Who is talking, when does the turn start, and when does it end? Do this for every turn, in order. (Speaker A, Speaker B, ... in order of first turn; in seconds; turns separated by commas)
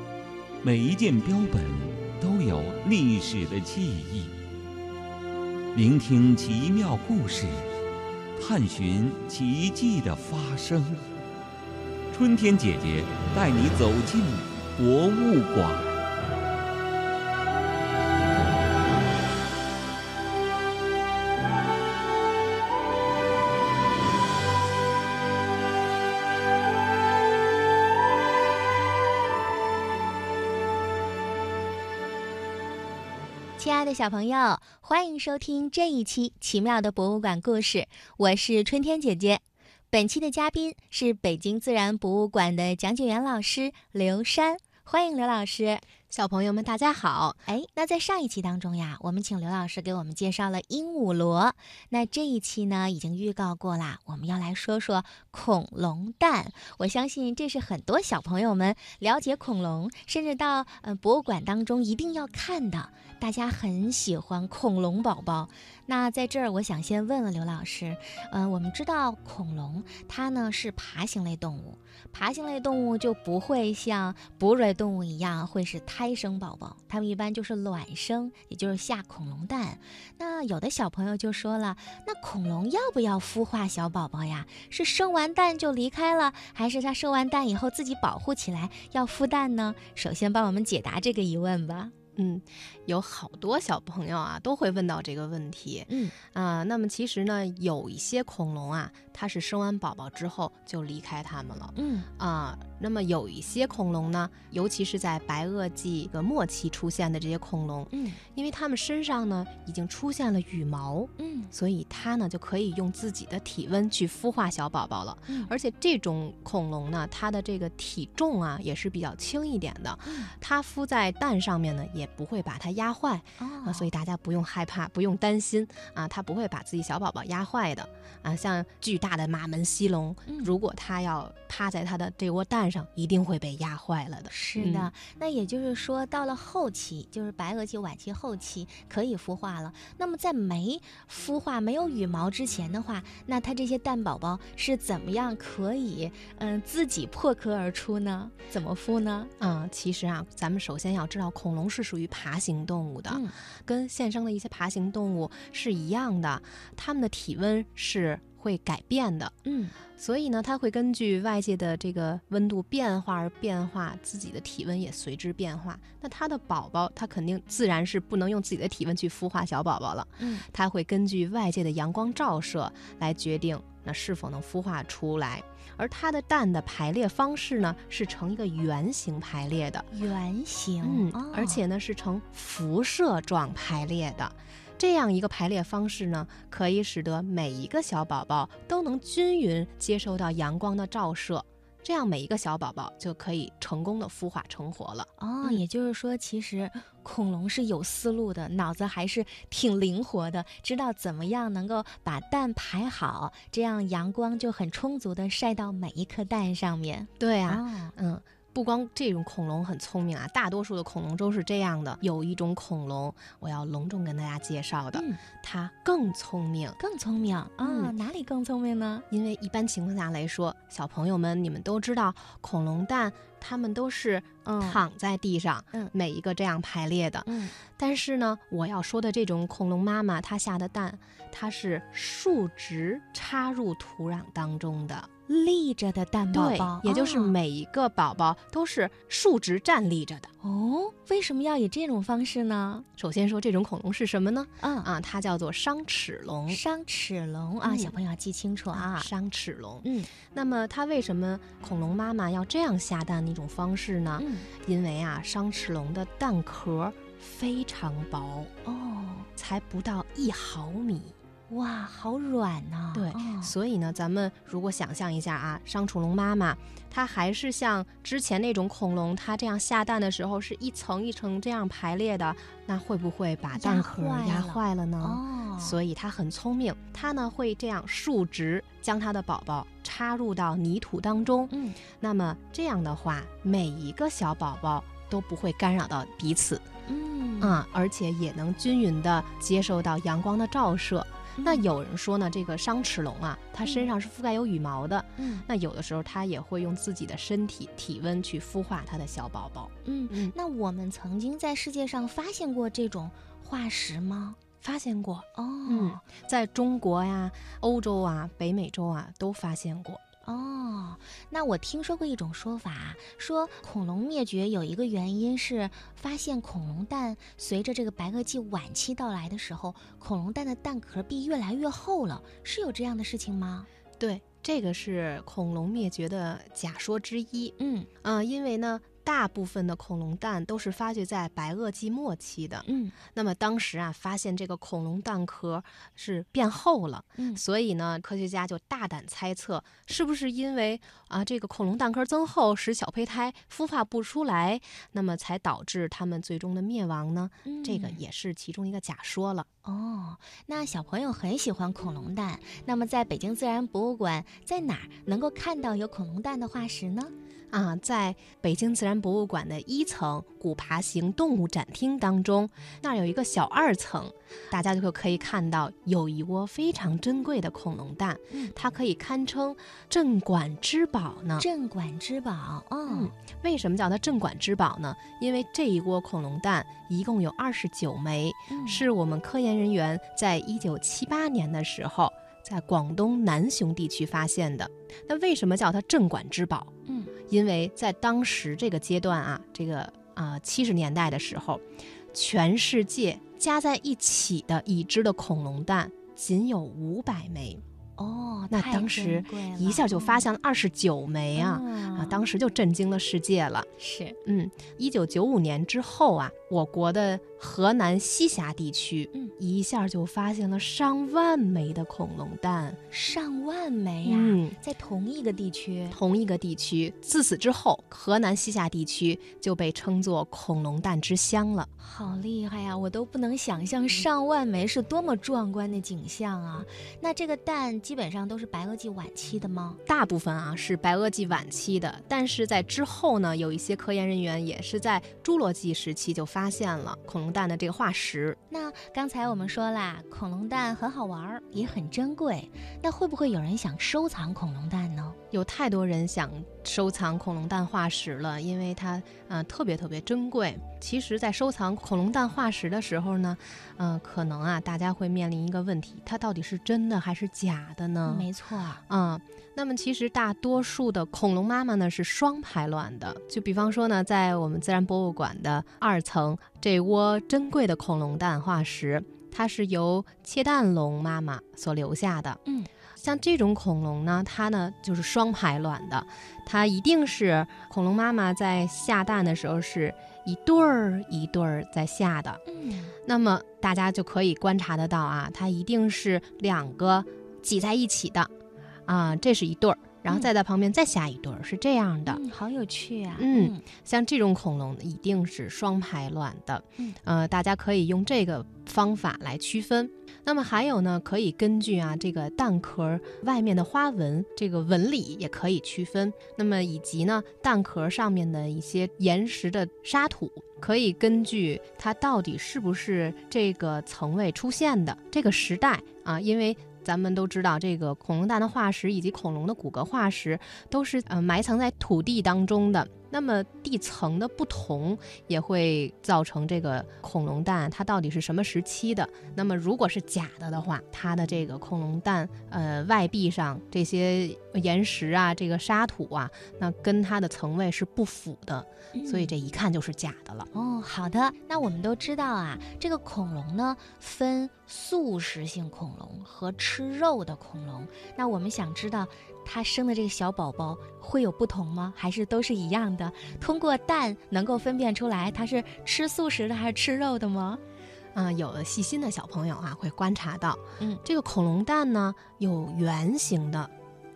Speaker A: 0.6-4.3, Speaker A: 5.7-7.7, Speaker A: 8.3-11.0, Speaker A: 12.1-15.9, Speaker B: 33.6-45.8, Speaker C: 46.1-47.4, Speaker B: 47.4-91.9, Speaker C: 92.2-134.9, Speaker B: 95.9-96.2, Speaker B: 101.8-102.1, Speaker B: 107.9-108.2, Speaker B: 111.2-111.5, Speaker B: 120.0-120.3, Speaker B: 123.4-123.9, Speaker B: 130.3-130.5, Speaker B: 134.3-149.3, Speaker C: 149.4-159.3, Speaker B: 153.1-153.3, Speaker B: 159.4-159.7, Speaker C: 159.9-179.9, Speaker B: 170.2-170.4, Speaker B: 179.9-181.6, Speaker C: 180.8-195.6, Speaker B: 195.2-207.9, Speaker C: 207.2-216.8, Speaker B: 214.9-215.2, Speaker B: 216.8-219.1, Speaker C: 217.6-217.9, Speaker C: 219.1-235.1, Speaker B: 224.4-224.8, Speaker B: 227.2-227.5, Speaker B: 235.3-237.3, Speaker C: 236.3-240.3, Speaker B: 240.4-242.9, Speaker C: 243.0-246.6, Speaker B: 244.6-244.9, Speaker B: 246.5-249.1, Speaker C: 247.6-247.9, Speaker C: 248.7-258.5, Speaker B: 249.8-250.1, Speaker B: 254.2-254.5, Speaker B: 258.6-259.3, Speaker C: 259.4-261.1, Speaker B: 261.5-263.5, Speaker C: 262.9-286.7, Speaker B: 273.5-275.8, Speaker B: 281.5-281.8, Speaker B: 286.9-287.6, Speaker C: 287.4-300.3, Speaker B: 291.4-291.6, Speaker B: 295.2-295.4, Speaker B: 299.8-304.4, Speaker C: 304.6-310.0, Speaker B: 305.3-306.0, Speaker B: 310.2-323.7, Speaker C: 324.0-349.5, Speaker B: 327.6-327.9, Speaker B: 332.6-332.9, Speaker B: 347.4-348.0, Speaker B: 349.6-357.1, Speaker C: 357.5-371.5, Speaker B: 371.4-373.1, Speaker C: 372.9-386.7, Speaker B: 378.5-378.8, Speaker B: 386.9-387.1, Speaker C: 387.3-397.6, Speaker B: 398.0-400.2, Speaker C: 398.5-403.7, Speaker B: 401.3-402.2, Speaker B: 403.8-404.2, Speaker C: 404.2-412.8, Speaker B: 412.9-416.0, Speaker C: 414.0-414.6, Speaker C: 415.9-421.7, Speaker B: 421.8-429.8, Speaker C: 429.9-438.4, Speaker B: 438.5-445.2, Speaker C: 445.3-458.3, Speaker B: 458.1-458.8, Speaker C: 458.9-472.4, Speaker C: 473.0-482.4, Speaker B: 482.5-482.9, Speaker C: 483.0-488.3, Speaker C: 488.9-492.2, Speaker B: 492.1-493.6, Speaker C: 493.2-540.5, Speaker B: 538.9-539.3, Speaker B: 540.5-557.6, Speaker C: 558.1-563.7